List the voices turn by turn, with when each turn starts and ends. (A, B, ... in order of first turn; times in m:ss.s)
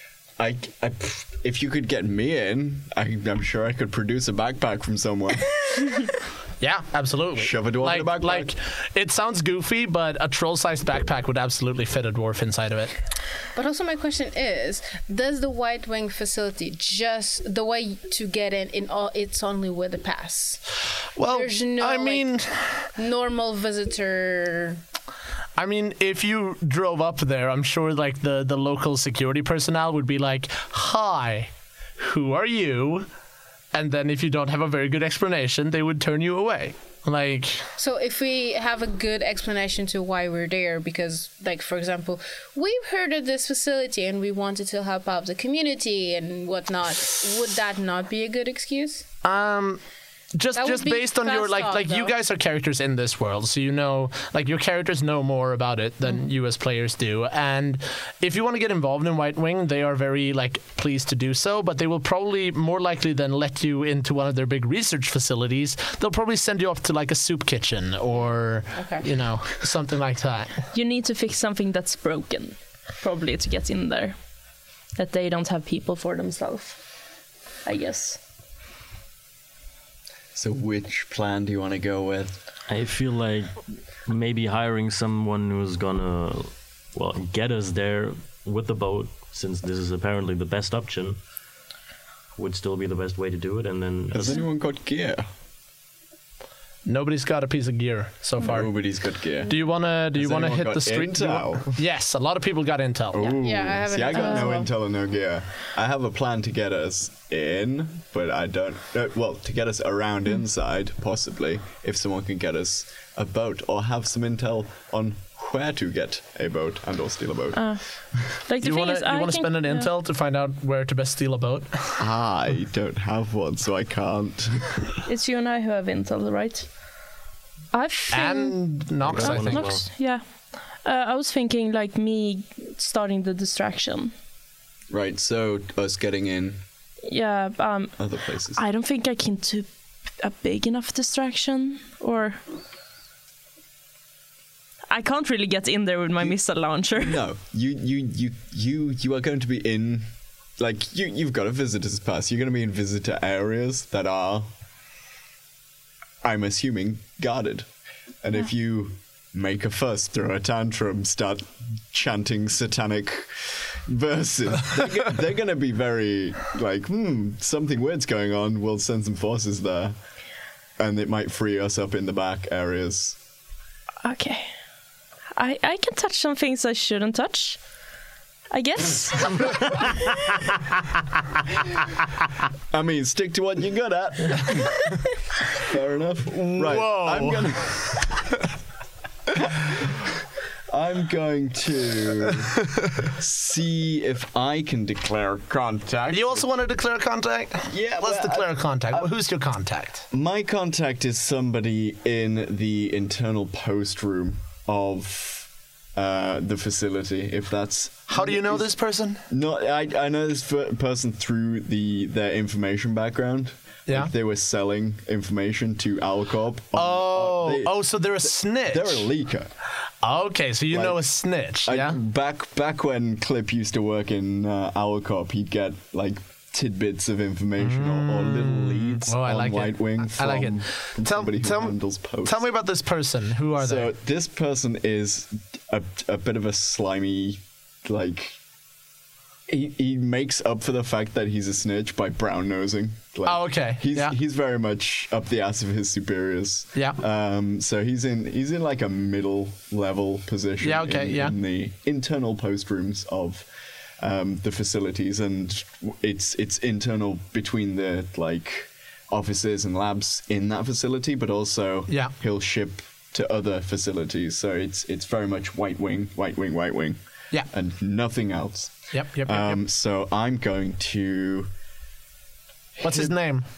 0:00.4-0:06.0 A
0:06.6-0:12.9 B
0:07.4-0:08.5 A
0:13.6-0:20.6 C
0:21.2-0:22.9 B
0:21.3-0:22.3 C
0:23.0-0:24.8 C
0:25.6-0:33.1 B
0:33.7-0:37.7 B
0:37.8-0:49.1 C
0:49.2-0:49.8 B
0:50.4-1:10.6 B
0:50.6-0:52.1 C
1:08.7-1:09.0 C
1:10.7-1:14.2 D
1:15.0-1:16.8 D
1:17.6-1:18.2 D
1:20.4-1:22.4 A
1:22.7-1:31.2 E
1:32.4-1:34.4 E
1:34.1-1:35.3 A
1:36.9-1:38.7 B
1:38.4-1:39.6 A
1:39.5-1:43.4 B
1:40.1-1:41.8 A
1:43.1-1:57.7 A
1:43.4-1:44.7 C
1:44.1-1:44.6 D
1:57.6-1:59.9 D
1:58.6-2:02.0 B
2:02.0-2:04.8 A
2:05.1-2:06.7 D
2:07.7-2:08.6 D
2:08.1-2:09.8 B
2:09.0-2:09.8 E
2:09.1-2:14.1 D
2:14.9-2:16.6 A
2:17.0-2:18.0 D
2:18.0-2:18.6 A
2:18.6-2:19.7 D
2:20.2-2:22.4 D
2:24.9-2:27.2 D
2:27.0-2:34.5 A
2:36.2-2:37.7 A
2:38.2-2:50.0 A
2:50.8-2:53.2 A
2:54.0-2:54.5 D
2:55.4-2:57.6 D
2:58.5-3:00.3 D
3:02.7-3:05.0 A
3:05.5-3:08.1 A
3:06.3-3:08.4 B
3:09.3-3:10.0 A
3:10.7-3:16.5 A
3:16.1-3:20.1 B
3:17.7-3:19.1 A
3:20.1-3:28.8 A
3:28.1-3:29.2 B
3:29.3-3:39.5 A
3:33.9-3:34.1 B
3:36.7-3:39.1 B
3:40.0-3:42.0 B
3:40.7-3:41.0 A
3:41.6-3:52.5 A
3:47.6-3:53.9 B
3:53.6-3:58.4 A
3:59.5-4:13.5 A
4:03.2-4:04.2 B
4:10.6-4:11.4 B
4:14.0-4:27.0 A
4:21.9-4:22.1 B
4:27.5-4:31.5 A
4:28.9-4:29.6 B
4:32.8-4:33.1 A
4:32.8-4:33.4 B